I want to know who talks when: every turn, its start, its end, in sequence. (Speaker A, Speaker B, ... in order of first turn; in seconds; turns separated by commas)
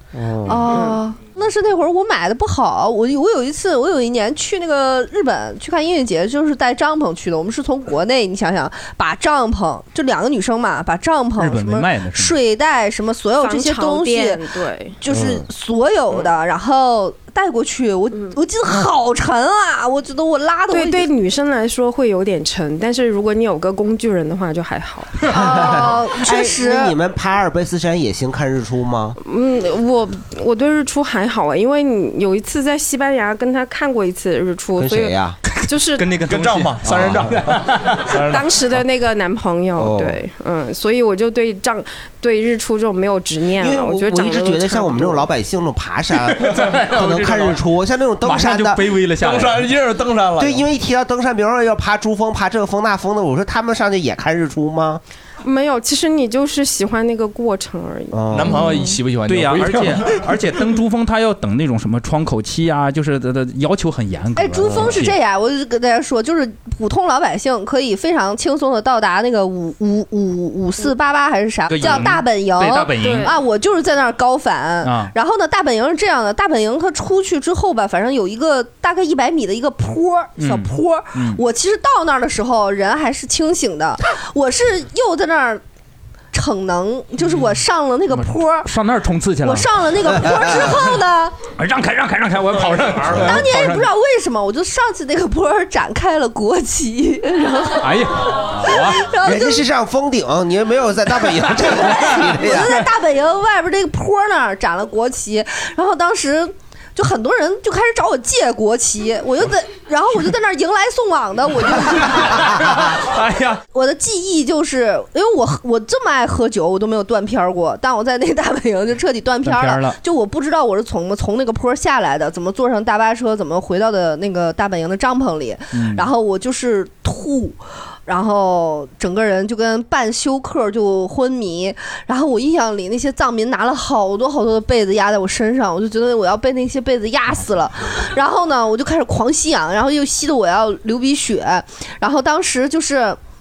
Speaker A: 0.1-0.7, Speaker B: 0.4-14.4, Speaker C: 0.7-1.0, Speaker D: 11.4-12.3, Speaker C: 13.4-15.0, Speaker B: 15.0-21.1, Speaker A: 15.1-15.4, Speaker C: 20.7-25.1, Speaker B: 25.3-26.9, Speaker A: 25.3-29.2, Speaker C: 29.2-36.1, Speaker A: 34.8-35.4, Speaker D: 35.4-38.2, Speaker E: 36.2-38.5, Speaker A: 36.8-37.3, Speaker C: 38.3-45.3, Speaker A: 39.8-40.2, Speaker A: 43.6-48.8, Speaker D: 46.3-47.6, Speaker E: 46.5-46.8, Speaker D: 48.2-49.7, Speaker E: 49.2-50.6, Speaker A: 50.4-55.0, Speaker C: 55.4-58.2, Speaker A: 58.1-58.6, Speaker E: 58.3-60.2, Speaker D: 58.5-65.2, Speaker B: 64.3-85.6, Speaker D: 71.7-73.3, Speaker C: 73.0-73.3, Speaker D: 74.8-75.1, Speaker D: 80.4-81.4, Speaker B: 86.3-88.7, Speaker D: 88.1-90.7, Speaker B: 89.4-91.4, Speaker A: 90.3-90.6, Speaker D: 91.5-93.9, Speaker B: 93.1-99.6, Speaker D: 97.8-99.0, Speaker A: 99.2-102.8, Speaker B: 101.7-113.0, Speaker D: 112.4-113.6, Speaker B: 113.7-143.2, Speaker D: 119.4-120.0, Speaker D: 125.7-126.0